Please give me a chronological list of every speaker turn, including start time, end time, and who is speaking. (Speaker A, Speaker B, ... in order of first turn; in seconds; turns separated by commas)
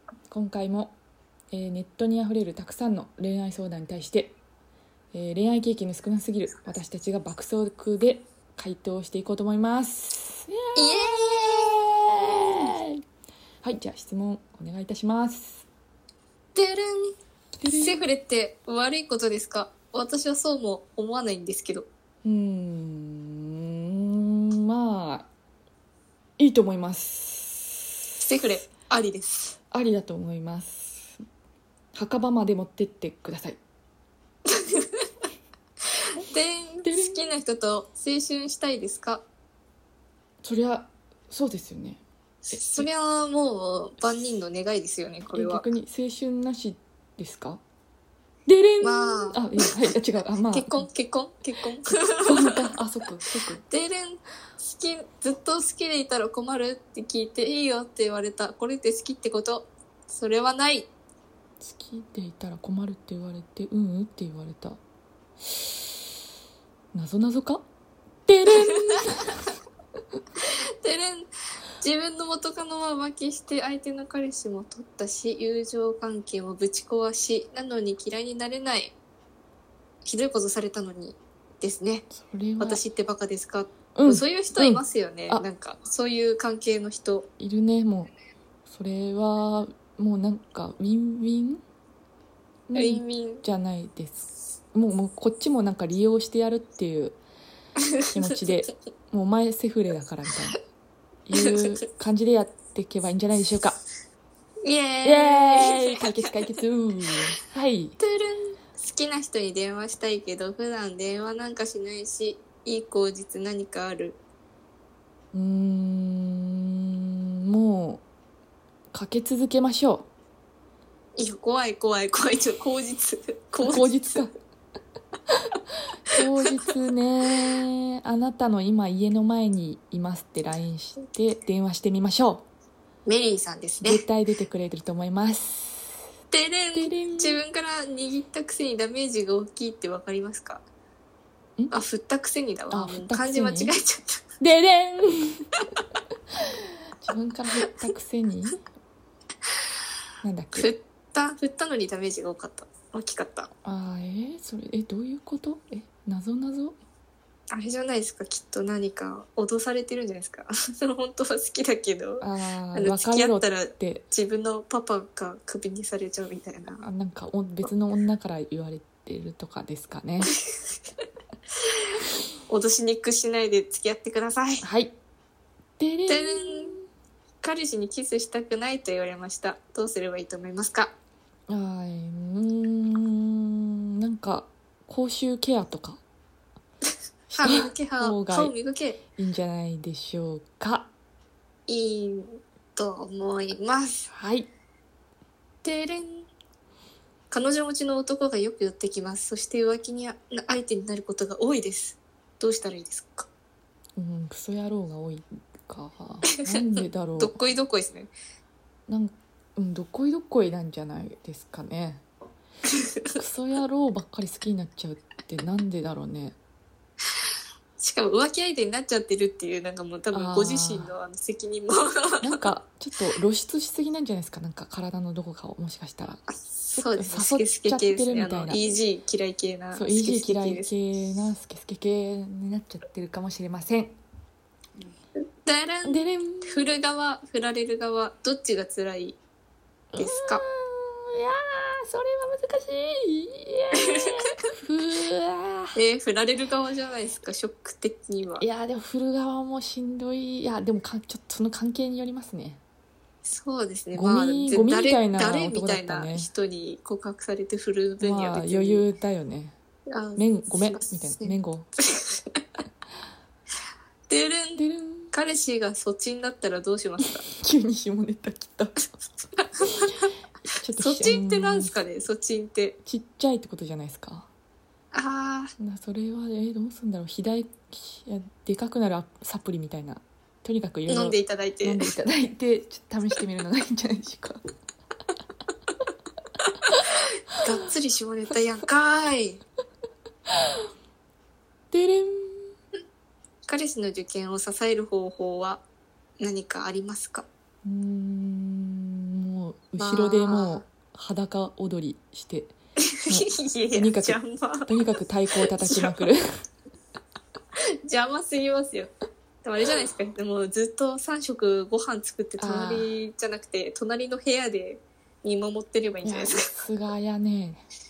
Speaker A: 0.3-0.9, Speaker A: 1.5-4.4, Speaker A: 5.1-13.0, Speaker B: 10.8-11.9, Speaker A: 13.6-15.7, Speaker B: 16.6-17.1, Speaker A: 17.6-18.0, Speaker B: 17.7-21.9, Speaker A: 22.2-25.3, Speaker A: 26.4-27.9, Speaker B: 28.2-29.6, Speaker A: 29.7-31.2, Speaker A: 31.9-33.6, Speaker B: 34.5-34.9, Speaker B: 36.2-39.2, Speaker A: 36.8-37.4, Speaker A: 40.4-42.0, Speaker B: 42.5-45.6, Speaker A: 42.5-42.9, Speaker A: 45.3-47.6, Speaker A: 48.5-50.9, Speaker B: 48.8-49.7, Speaker B: 50.5-52.6, Speaker A: 51.9-53.6, Speaker B: 53.7-60.9, Speaker A: 61.6-64.8, Speaker A: 66.9-67.7, Speaker A: 68.3-69.4, Speaker B: 70.4-71.3, Speaker B: 71.8-78.9, Speaker B: 80.0-82.1, Speaker A: 82.1-82.8, Speaker B: 82.6-87.3, Speaker A: 84.0-85.5, Speaker A: 87.4-88.1, Speaker A: 88.7-91.6, Speaker A: 92.7-97.2, Speaker B: 92.8-93.4, Speaker A: 98.1-100.6, Speaker A: 101.3-103.8, Speaker B: 104.6-106.3, Speaker A: 105.0-108.0, Speaker B: 108.0-114.2, Speaker A: 115.3-118.0, Speaker A: 118.9-120.1, Speaker B: 121.2-124.2, Speaker A: 123.6-124.3, Speaker A: 126.1-132.5, Speaker B: 133.1-134.0, Speaker A: 133.8-136.0, Speaker B: 136.3-140.6, Speaker A: 136.7-137.4, Speaker B: 141.7-144.2, Speaker A: 142.7-143.8, Speaker A: 144.4-145.5, Speaker A: 147.0-148.6, Speaker A: 150.2-150.7, Speaker B: 150.5-153.5, Speaker A: 153.7-156.8, Speaker B: 157.5-166.8, Speaker A: 162.2-164.1, Speaker A: 166.8-170.3, Speaker B: 172.5-174.6, Speaker A: 174.6-174.9, Speaker A: 175.8-176.9, Speaker B: 176.1-176.8, Speaker B: 177.4-180.9, Speaker A: 181.5-186.0, Speaker A: 187.3-188.5, Speaker B: 187.3-189.0, Speaker A: 189.2-190.9, Speaker B: 191.7-194.1, Speaker A: 194.1-194.5, Speaker B: 195.6-196.3, Speaker B: 197.3-203.3, Speaker A: 204.0-207.4, Speaker B: 207.2-208.1, Speaker A: 208.9-212.0, Speaker B: 212.8-213.2, Speaker A: 213.2-216.4, Speaker B: 217.8-222.4, Speaker A: 220.1-220.9, Speaker A: 222.2-226.2, Speaker B: 226.4-230.7, Speaker A: 226.8-228.6, Speaker A: 229.7-234.0, Speaker B: 235.4-239.2, Speaker A: 235.8-236.7, Speaker A: 239.9-245.8, Speaker B: 240.0-240.4, Speaker B: 245.8-248.4, Speaker A: 248.4-252.6, Speaker B: 253.2-258.9, Speaker A: 253.9-256.3, Speaker A: 258.0-259.6, Speaker B: 259.9-262.4, Speaker A: 260.2-261.7, Speaker B: 264.1-267.2, Speaker A: 264.6-265.1, Speaker A: 267.1-268.9, Speaker B: 269.4-269.9, Speaker A: 269.8-271.8, Speaker B: 270.8-272.8, Speaker A: 272.8-274.3, Speaker B: 274.9-275.5, Speaker A: 275.6-284.4, Speaker B: 280.9-281.9, Speaker B: 287.4-289.4, Speaker A: 291.7-292.5, Speaker B: 293.5-295.6, Speaker B: 296.2-297.3, Speaker A: 297.6-302.5, Speaker B: 299.8-300.6, Speaker B: 302.8-304.7, Speaker A: 303.1-306.3, Speaker B: 305.5-306.1, Speaker B: 307.8-308.9, Speaker B: 309.4-316.5, Speaker A: 312.4-312.9, Speaker A: 316.0-317.6